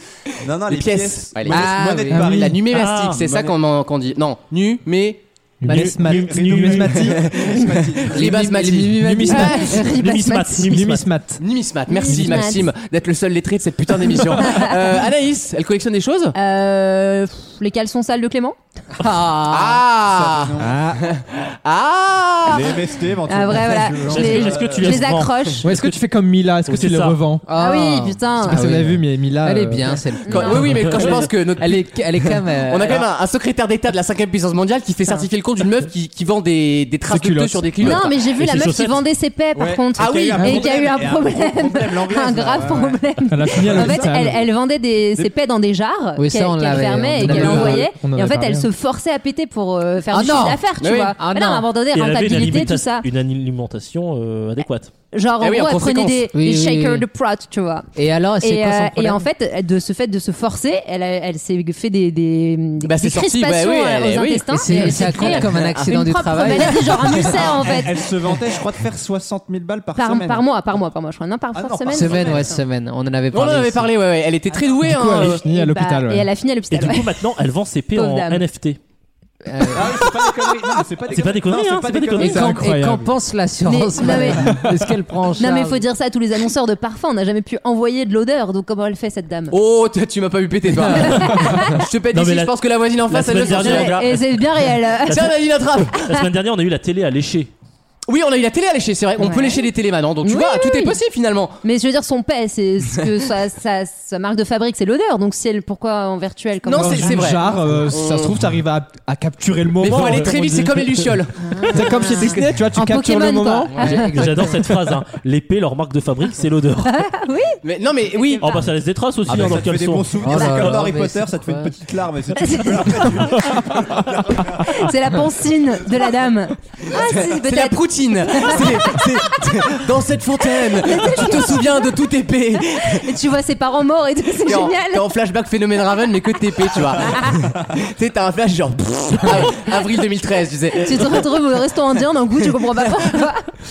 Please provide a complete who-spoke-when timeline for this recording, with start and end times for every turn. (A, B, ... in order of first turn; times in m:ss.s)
0:00.4-0:03.6 A
0:00.7-0:06.2 B
0:01.5-0:02.5 C
0:02.7-0:03.2 D
0:05.6-0:07.3 E
0:05.6-0:06.8 D
0:05.8-0:08.3 A
0:07.0-0:09.3 B
0:08.1-0:09.8 C
0:09.0-0:09.8 E
0:09.3-0:10.7 F
0:09.8-0:11.1 D
0:10.6-0:11.4 E
0:11.4-0:16.3 B
0:11.9-0:12.7 F
0:14.3-0:14.8 F
0:16.3-0:18.6 F
0:19.0-0:19.8 C
0:19.5-0:22.8 B
0:20.0-0:20.9 A
0:20.6-0:21.0 E
0:22.5-0:25.0 A
0:23.2-0:25.7 F
0:24.1-0:25.6 D
0:25.6-0:27.4 E
0:26.7-0:27.2 D
0:27.5-0:33.0 C
0:27.5-0:28.7 F
0:28.4-0:30.0 E
0:30.2-0:30.8 F
0:30.3-0:32.0 B
0:30.8-0:31.2 D
0:32.6-0:38.2 B
0:37.1-0:37.9 E
0:37.8-0:53.1 F
0:38.3-0:39.0 D
0:39.6-0:43.0 A
0:40.4-0:40.7 E
0:43.3-0:44.4 E
0:43.6-0:44.1 A
0:46.2-0:47.9 C
0:47.2-0:48.7 E
0:50.1-0:51.6 C
0:50.8-0:51.2 B
0:51.9-0:54.9 D
0:55.1-0:57.9 F
0:55.4-0:56.2 B
0:56.3-0:57.0 C
0:58.0-0:59.2 C
0:58.4-1:08.1 F
1:02.8-1:05.9 B
1:04.5-1:07.0 C
1:06.5-1:07.5 B
1:07.2-1:10.5 A
1:10.0-1:12.6 F
1:11.5-1:12.6 A
1:11.9-1:13.9 C
1:13.3-1:15.4 B
1:14.8-1:16.3 E
1:15.4-1:17.2 F
1:16.7-1:18.8 D
1:17.9-1:18.4 F
1:19.4-1:20.0 C
1:19.7-1:22.6 A
1:21.1-1:22.4 D
1:22.2-1:23.1 E
1:22.2-1:25.8 C
1:23.6-1:24.6 F
1:24.4-1:24.9 E
1:25.4-1:29.6 F
1:29.5-1:34.1 B
1:30.9-1:31.8 F
1:32.1-1:32.5 D
1:33.1-1:34.2 D
1:33.3-1:35.4 F
1:35.1-1:36.1 B
1:36.1-1:37.5 D
1:38.1-1:41.6 B
1:39.2-1:39.7 F
1:40.2-1:41.0 F
1:41.6-1:47.3 F
1:46.6-1:48.4 B
1:46.7-1:53.8 E
1:49.8-1:52.5 B
1:51.4-1:54.4 F
1:53.8-1:57.0 D
1:56.9-1:57.6 F
1:57.6-1:58.4 B
1:58.1-1:58.6 F
1:58.4-2:00.8 D
1:59.3-2:04.9 A
2:00.2-2:01.7 C
2:02.4-2:03.2 F
2:04.6-2:09.0 F
2:06.9-2:13.0 B
2:10.8-2:11.9 F
2:12.9-2:15.1 F
2:14.4-2:21.4 B
2:17.1-2:17.4 F
2:20.7-2:23.5 F
2:22.7-2:23.2 B